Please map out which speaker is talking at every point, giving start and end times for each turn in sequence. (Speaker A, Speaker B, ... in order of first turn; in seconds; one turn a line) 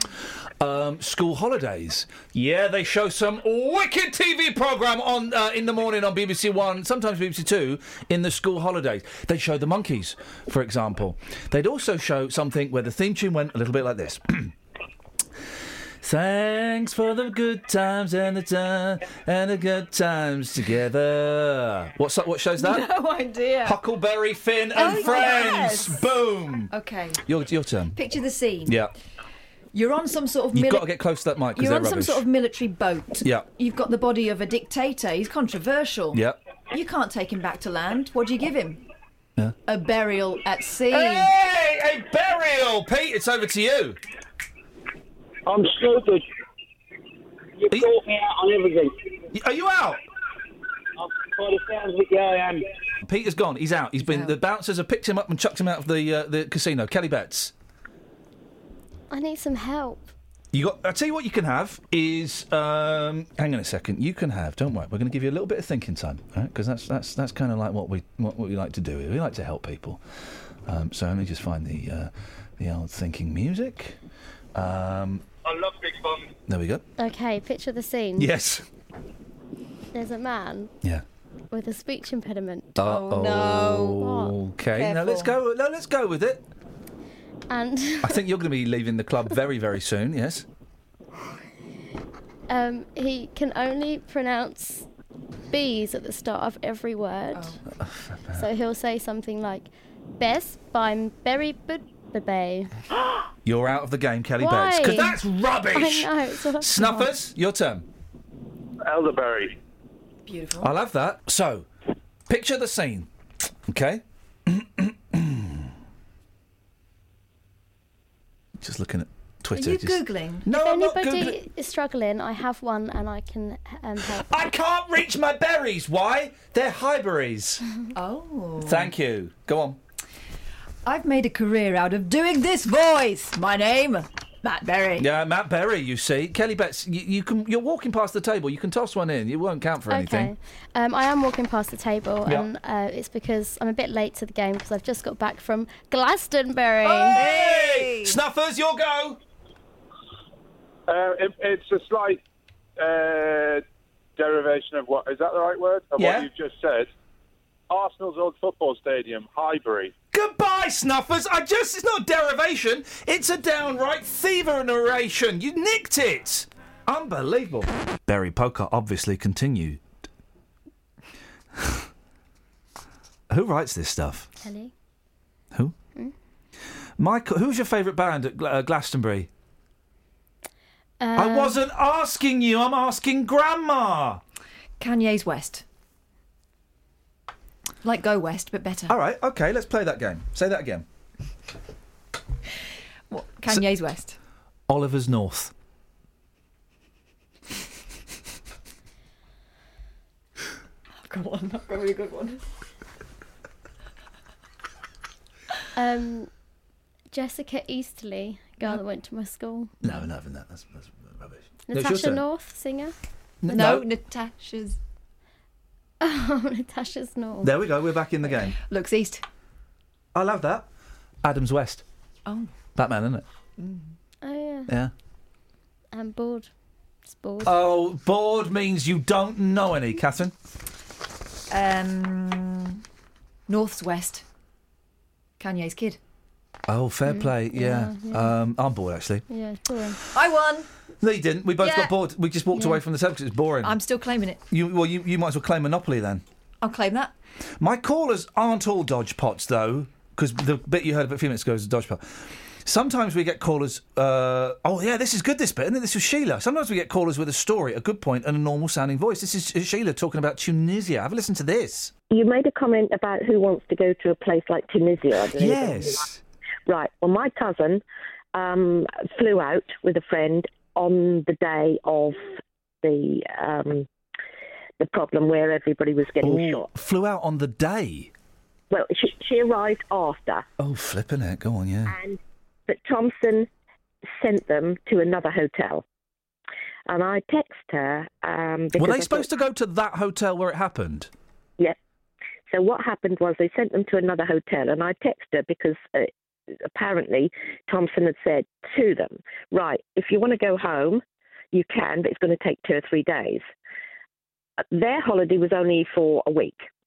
Speaker A: 0.6-14.5
Speaker A: 16.0-22.9
Speaker B: 22.6-23.8
Speaker A: 23.6-26.7
Speaker B: 24.7-26.1
Speaker B: 26.7-27.2
Speaker A: 27.2-27.9
Speaker B: 27.9-28.8
Speaker B: 29.7-30.9
Speaker A: 30.5-32.2
Speaker B: 31.6-38.8
Speaker B: 39.6-41.3
Speaker A: 40.9-44.0
Speaker C: 45.5-46.2
Speaker C: 47.6-48.9
Speaker A: 49.3-50.0
Speaker C: 51.0-52.6
Speaker A: 53.0-57.5
Speaker B: 54.0-54.4
Speaker D: 59.1-60.1
Speaker A: 60.5-70.0
Speaker A: 70.7-74.0
Speaker A: 74.5-75.2
Speaker A: 76.5-76.8
Speaker D: 77.0-78.3
Speaker A: 78.2-78.6
Speaker D: 79.9-80.7
Speaker D: 81.5-82.8
Speaker A: 82.8-86.4
Speaker B: 82.8-84.0
Speaker D: 84.0-84.4
Speaker B: 84.7-85.4
Speaker D: 87.5-88.2
Speaker A: 88.0-90.5
Speaker D: 92.5-94.8
Speaker D: 95.5-97.6
Speaker B: 97.3-97.6
Speaker A: 97.7-98.5
Speaker D: 98.3-102.7
Speaker A: 103.4-107.8
Speaker D: 104.4-107.1
Speaker E: 108.8-109.5
Speaker B: 110.2-110.7
Speaker A: 110.6-111.7
Speaker A: 112.3-113.1
Speaker A: 113.7-115.7
Speaker A: 118.6-121.4
Speaker B: 119.5-120.5
Speaker D: 120.5-124.3
Speaker A: 124.1-127.6
Speaker B: 127.9-128.9
Speaker A: 128.6-129.8
Speaker B: 130.8-135.1
Speaker A: 135.0-140.3
Speaker D: 139.9-147.2
Speaker B: 146.8-148.2
Speaker A: 147.1-149.2
Speaker E: 150.9-152.2
Speaker E: 152.8-153.6
Speaker E: 154.2-156.9
Speaker A: 155.9-156.3
Speaker E: 157.7-159.9
Speaker A: 160.1-169.8
Speaker A: 171.6-171.8
Speaker A: 173.3-174.3
Speaker D: 174.4-174.7
Speaker A: 177.0-179.3
Speaker D: 181.0-181.7
Speaker A: 181.1-184.2
Speaker B: 184.8-185.6
Speaker B: 187.8-188.9
Speaker A: 188.9-190.8
Speaker B: 193.1-194.2
Speaker A: 194.7-195.5
Speaker B: 201.0-202.4
Speaker D: 205.8-206.3
Speaker D: 207.1-209.9
Speaker A: 209.8-212.2
Speaker D: 211.7-212.9
Speaker A: 213.4-213.9
Speaker B: 213.5-214.8
Speaker D: 216.0-217.6
Speaker A: 217.4-218.5
Speaker B: 218.6-219.2
Speaker A: 220.1-220.7
Speaker A: 221.2-221.8
Speaker B: 222.2-222.5
Speaker A: 222.7-223.2
Speaker B: 223.6-223.9
Speaker D: 224.2-224.7
Speaker D: 225.9-226.5
Speaker D: 227.1-227.6
Speaker A: 227.4-230.3
Speaker B: 231.5-232.8
Speaker B: 233.5-234.2
Speaker B: 235.4-236.0
Speaker A: 236.7-239.2
Speaker D: 237.1-238.4
Speaker D: 239.3-240.0
Speaker B: 240.1-240.7
Speaker A: 241.0-243.8
Speaker B: 241.6-241.9
Speaker D: 242.5-242.8
Speaker B: 243.6-244.4
Speaker A: 244.5-246.2
Speaker B: 246.6-247.1
Speaker A: 247.6-261.9
Speaker F: 262.1-266.1
Speaker A: 265.3-266.2
Speaker F: 266.7-267.8
Speaker F: 268.3-273.9
Speaker F: 274.8-276.7
Speaker A: 276.2-278.1
Speaker F: 278.7-280.4
Speaker A: 280.6-281.9
Speaker F: 281.9-283.5
Speaker F: 284.2-285.8
Speaker F: 286.9-289.3
Speaker A: 288.8-291.1
Speaker F: 292.5-296.1
Speaker F: 296.7-301.0
Speaker F: 301.5-303.4
Speaker F: 304.7-306.6